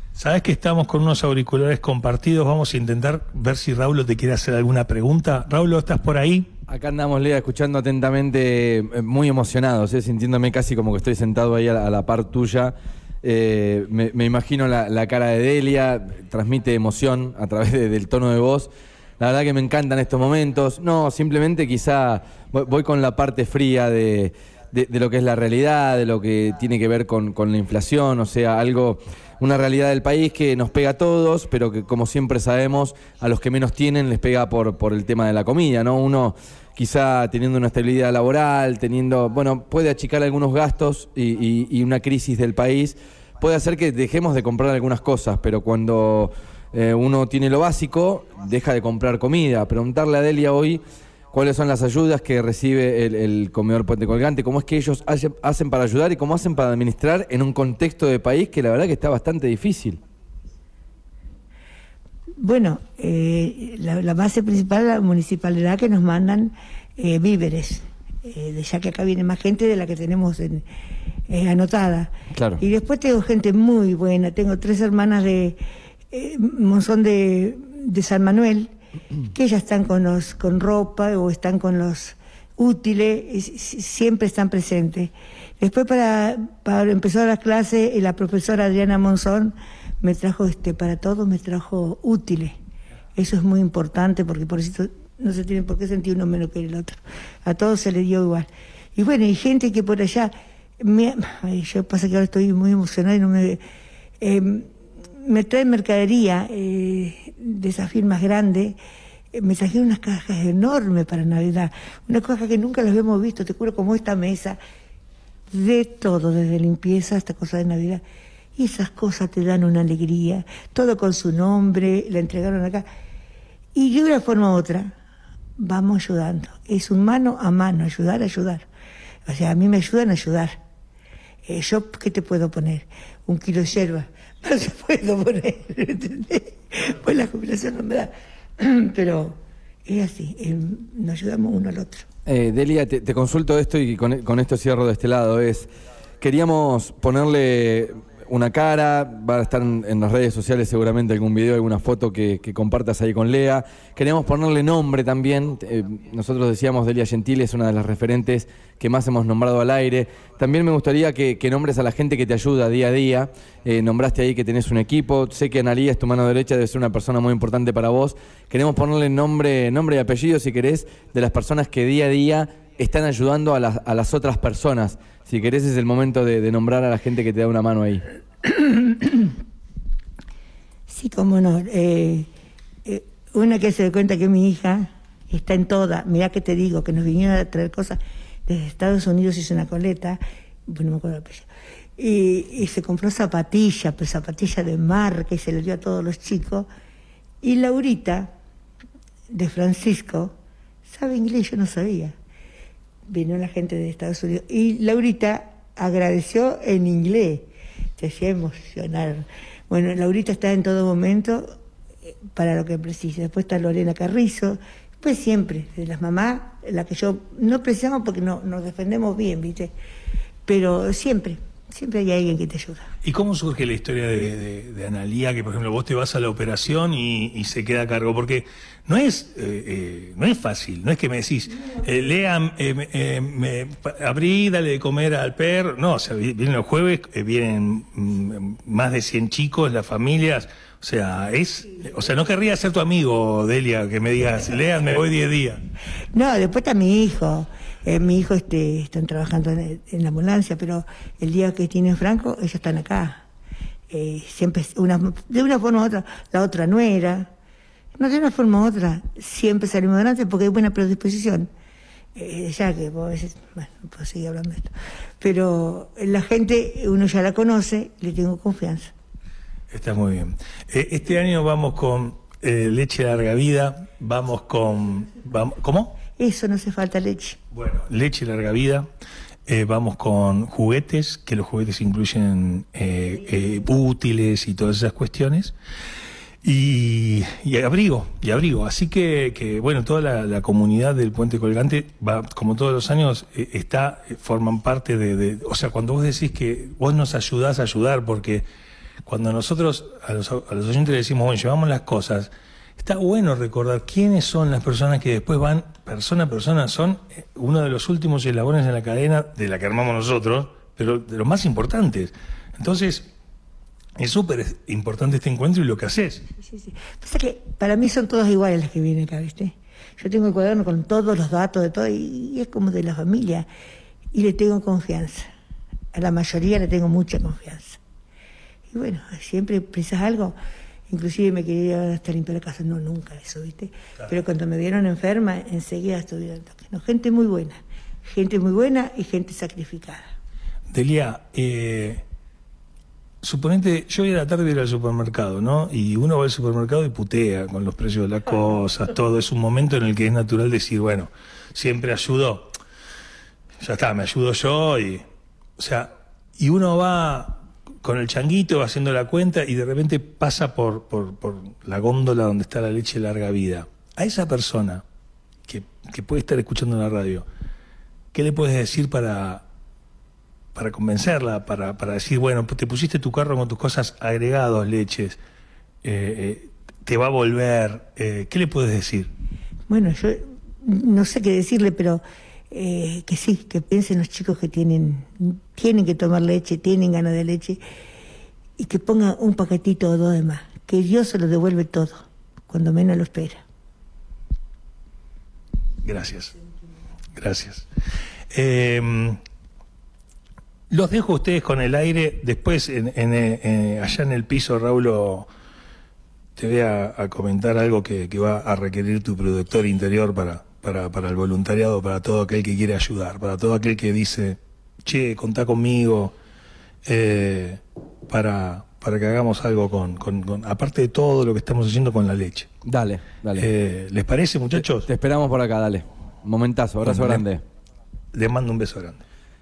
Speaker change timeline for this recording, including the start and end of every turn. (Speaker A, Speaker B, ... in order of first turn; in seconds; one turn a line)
Speaker A: 0.1-6.5
Speaker B: 6.7-60.0
Speaker C: 62.4-70.6
Speaker C: 71.3-75.6
Speaker B: 72.3-72.6
Speaker C: 76.1-78.7
Speaker C: 79.3-92.5
Speaker C: 93.2-103.6
Speaker C: 104.2-108.8
Speaker C: 109.3-114.6
Speaker C: 115.5-118.0
Speaker C: 118.5-122.8
Speaker C: 123.7-124.9
Speaker C: 125.6-128.7
Speaker C: 129.2-130.6
Speaker C: 131.4-142.1
Speaker B: 142.2-145.7
Speaker B: 146.2-178.0
Speaker C: 178.5-179.3
Speaker C: 180.9-182.3
Speaker C: 182.8-196.7
Speaker C: 197.4-198.3
Speaker C: 199.3-200.3
Speaker C: 200.8-202.1
Speaker C: 203.1-211.5
Speaker C: 212.3-219.7
Speaker C: 220.4-222.9
Speaker A: 223.0-245.6
Speaker C: 246.1-253.2
Speaker C: 253.9-257.3
Speaker C: 258.0-261.5
Speaker C: 262.1-268.9
Speaker A: 269.7-276.0
Speaker C: 276.1-277.4
Speaker A: 277.5-278.9
Speaker A: 279.4-285.5
Speaker A: 286.4-298.4
Speaker A: 299.0-313.1
Speaker A: 314.0-316.2
Speaker C: 316.4-323.5
Speaker C: 324.1-325.3
Speaker C: 325.9-327.8
Speaker C: 328.7-330.4
Speaker C: 330.9-340.1
Speaker A: 340.7-342.0
Speaker A: 343.2-352.5
Speaker A: 353.6-355.0
Speaker A: 355.6-364.8
Speaker A: 365.4-367.2
Speaker A: 368.1-369.4
Speaker A: 370.5-375.2
Speaker A: 375.8-379.1
Speaker C: 379.7-387.6
Speaker C: 388.6-393.4
Speaker A: 395.8-396.3
Speaker A: 397.1-397.6
Speaker A: 398.3-399.2
Speaker A: 400.7-405.3
Speaker A: 406.4-416.1
Speaker A: 416.8-422.5
Speaker B: 422.6-423.5
Speaker A: 423.3-424.9
Speaker B: 424.7-427.4
Speaker A: 426.8-427.2
Speaker A: 428.1-429.0